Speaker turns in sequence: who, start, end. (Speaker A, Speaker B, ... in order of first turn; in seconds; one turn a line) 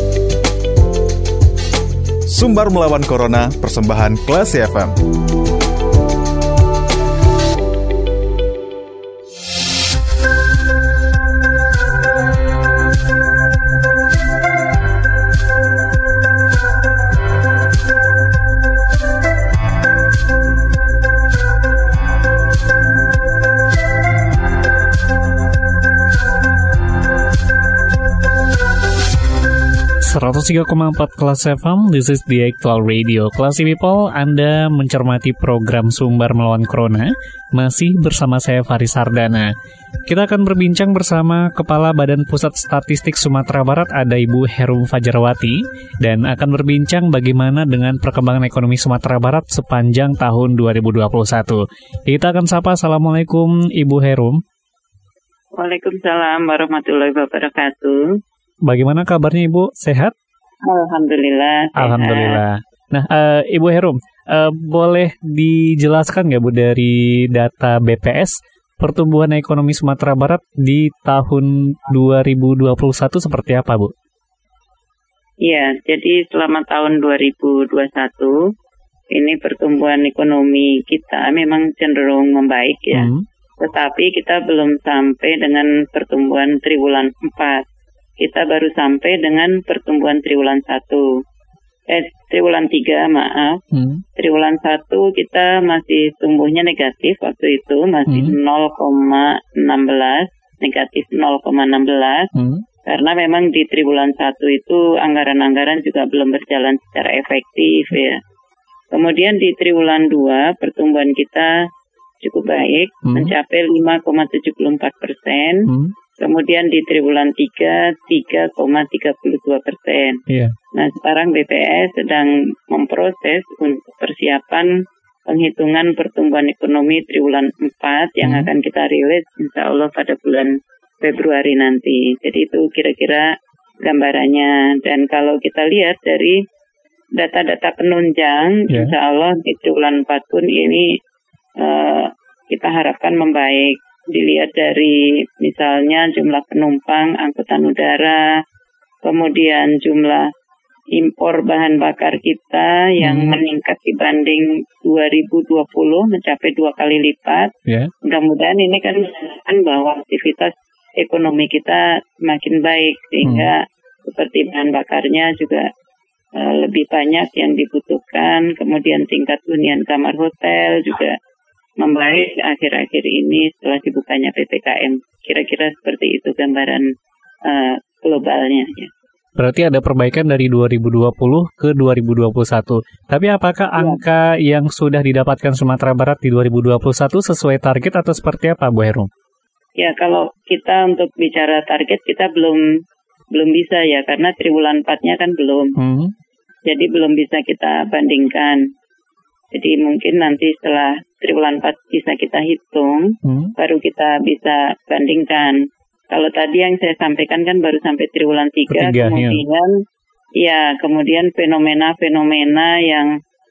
Speaker A: 2.3-5.0
Speaker B: 30.0-39.5
Speaker B: 40.1-54.4
Speaker C: 55.6-58.0
Speaker B: 58.6-60.1
Speaker C: 60.6-62.4
Speaker B: 61.8-73.9
Speaker C: 75.4-78.4
Speaker C: 79.1-87.7
Speaker B: 82.9-83.2
Speaker C: 88.2-91.1
Speaker C: 91.9-93.6
Speaker B: 93.7-94.0
Speaker C: 94.2-102.3
Speaker B: 98.1-98.3
Speaker B: 102.3-102.6
Speaker C: 102.9-108.2
Speaker C: 108.9-111.5
Speaker C: 112.2-120.2
Speaker B: 113.1-113.3
Speaker B: 115.7-115.9
Speaker B: 120.3-120.5
Speaker C: 120.8-124.7
Speaker C: 125.3-133.3
Speaker B: 128.2-128.5
Speaker C: 133.8-136.4
Speaker C: 137.2-141.0
Speaker C: 141.6-148.2
Speaker C: 149.0-150.3
Speaker C: 151.0-157.5
Speaker B: 153.0-153.4
Speaker C: 158.0-165.7
Speaker B: 163.2-163.5
Speaker C: 166.4-171.2
Speaker C: 171.8-176.9
Speaker C: 177.5-178.9
Speaker B: 179.4-189.1
Speaker C: 183.8-184.0
Speaker C: 189.8-192.6
Speaker C: 193.3-195.8
Speaker B: 195.8-196.1
Speaker C: 196.7-198.6
Speaker C: 199.5-209.7
Speaker B: 203.2-203.5
Speaker B: 208.7-209.4
Speaker C: 210.4-213.1